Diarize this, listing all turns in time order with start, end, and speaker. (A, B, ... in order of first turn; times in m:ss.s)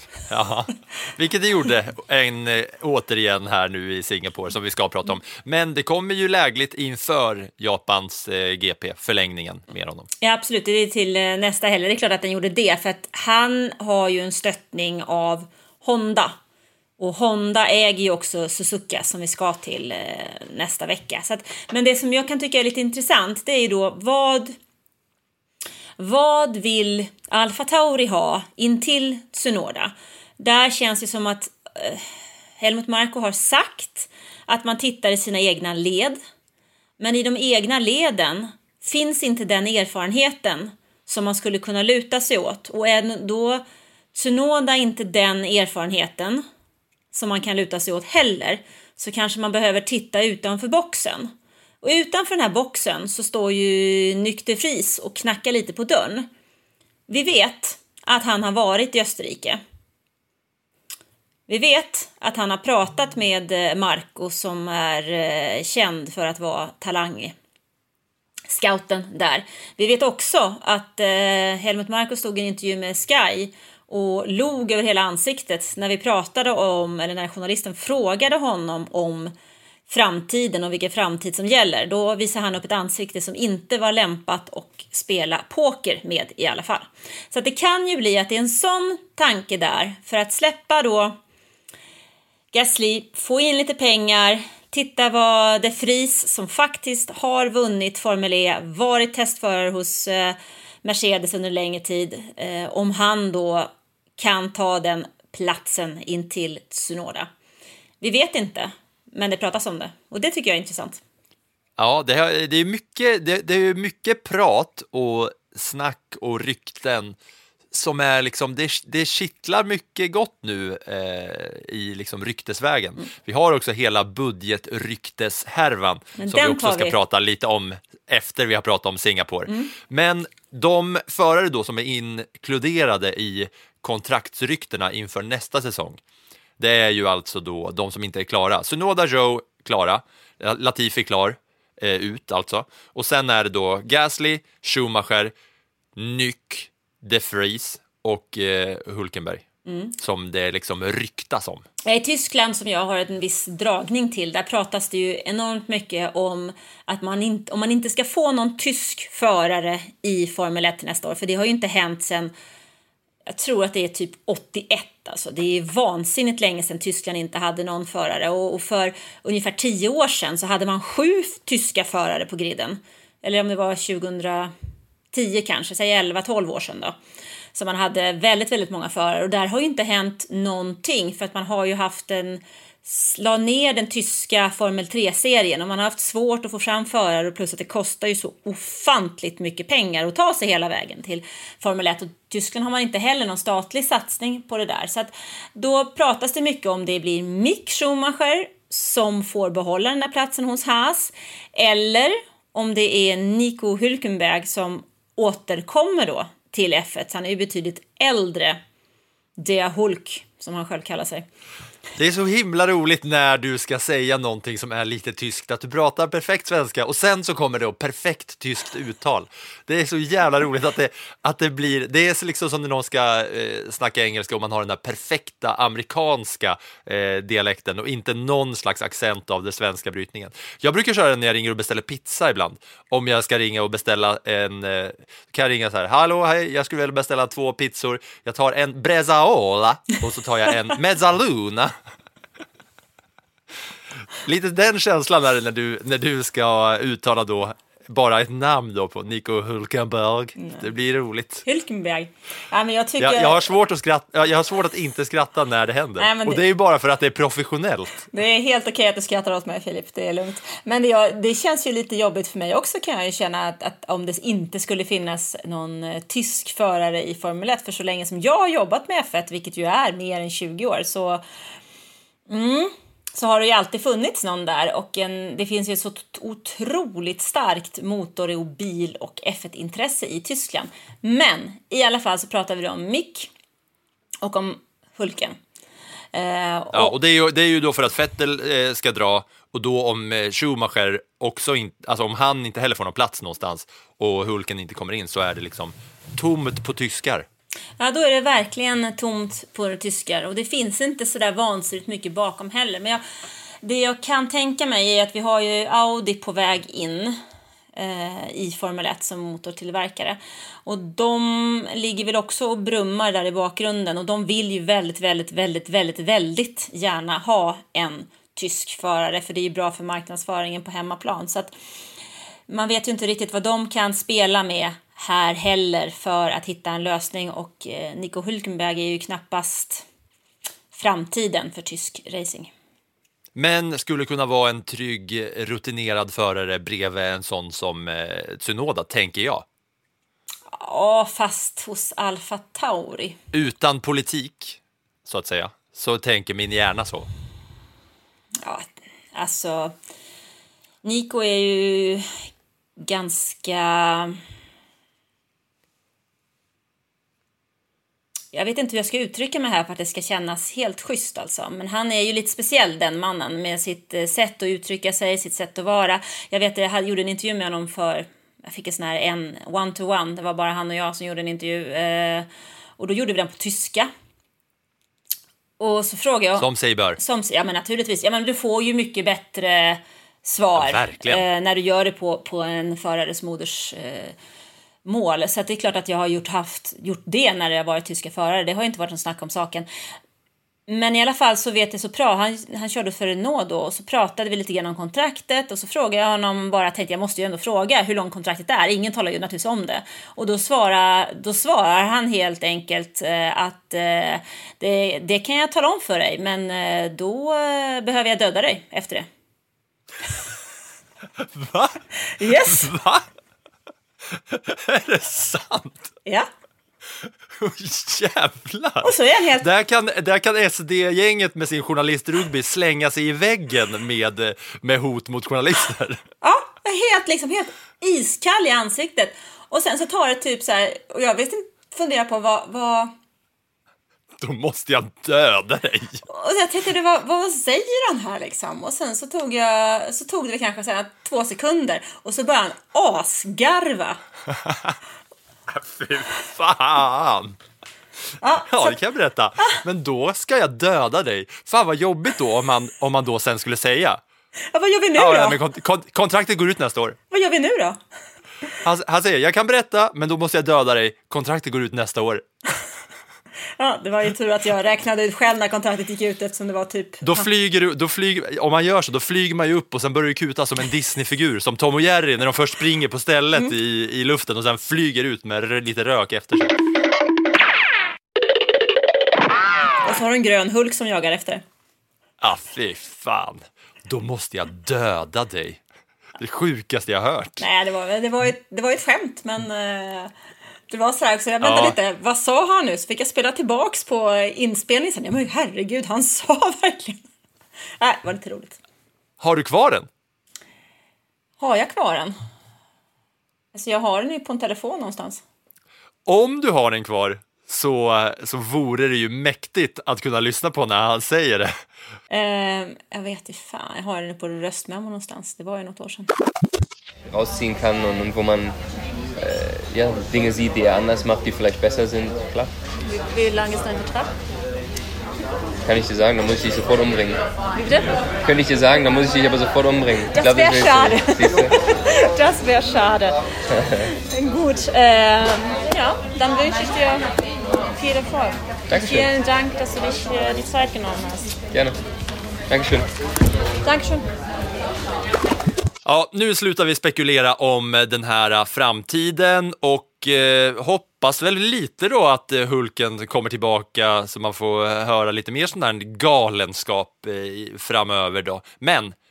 0:00.3-0:10.1 A
0:10.2-0:16.4 B
0:17.0-0:24.5 B
0:26.0-0:32.0 B
0:32.6-0:36.2 B
0:37.0-0:43.6 B
0:44.1-0:46.4 B
0:47.1-0:56.3 B
0:57.1-0:59.6 B
1:01.5-1:07.4 B
1:08.5-1:19.3 B
1:19.9-1:31.1 B
1:32.5-1:47.3 B
1:48.0-1:51.0 B
1:51.8-1:57.2 A
1:57.7-2:16.0 A
2:06.2-2:06.9 B
2:16.6-2:25.3 A
2:26.0-2:29.4 A
2:29.6-2:29.9 B
2:30.0-2:31.6 A
2:31.8-2:42.3 B
2:43.3-2:54.5 B
2:55.1-2:57.0 B
2:57.5-3:28.6 B
3:29.4-3:31.2 B
3:32.0-4:01.7 A
4:04.2-4:11.4 A
4:10.4-4:10.7 B
4:11.4-4:13.4 B
4:13.0-4:18.1 A
4:16.0-4:16.4 B
4:18.1-4:31.2 B
4:32.3-4:43.3 B
4:44.2-4:45.4 B
4:46.1-4:46.9 B
4:46.7-4:57.2 A
4:57.8-5:03.0 B
5:03.6-5:07.2 B
5:07.8-5:21.5 B
5:22.5-5:29.8 B
5:30.7-5:32.5 B
5:33.4-5:39.4 A
5:40.5-5:43.2 B
5:43.3-5:47.1 A
5:48.4-5:49.7 B
5:50.8-5:52.1 B
5:52.8-5:54.2 B
5:58.3-6:12.3 B
6:12.8-6:13.9 B
6:15.6-6:16.5 B
6:16.4-6:17.0 A
6:17.0-6:24.2 B
6:20.5-6:21.2 A
6:24.8-6:29.7 B
6:30.7-6:49.0 B
6:51.2-6:53.0 A
6:52.2-6:52.7 B
6:54.1-6:55.9 A
6:57.0-7:06.0 A
6:58.8-6:59.5 B
7:06.2-7:12.9 B
7:14.2-7:16.0 A
7:16.1-7:24.0 B
7:24.3-7:24.8 A
7:25.5-7:27.4 A
7:28.2-7:28.8 B
7:28.4-7:34.0 A
7:34.5-7:35.4 B
7:35.0-7:37.0 A
7:37.1-7:37.8 B
7:38.6-7:42.2 A
7:43.6-7:47.2 B
7:47.0-7:56.6 A
7:59.8-8:01.4 B
8:02.2-8:05.6 A
8:06.2-8:07.4 A
8:07.4-8:10.1 B
8:10.7-8:17.0 B
8:11.4-8:11.8 A
8:17.8-8:18.6 B
8:19.2-8:19.9 A
8:21.4-8:22.1 B
8:23.5-8:25.2 B
8:26.1-8:31.5 A
8:32.1-8:36.1 B
8:37.1-8:38.6 C
8:39.2-8:42.5 C
8:42.9-8:44.1 B
8:45.6-8:47.2 C
8:47.6-8:48.0 B
8:48.2-8:51.6 C
8:50.1-8:53.2 B
8:54.1-8:57.1 B
8:57.8-9:01.4 B
8:58.7-8:59.1 C
9:01.5-9:01.8 C
9:02.5-9:02.9 C
9:03.6-9:04.1 B
9:05.8-9:18.9 A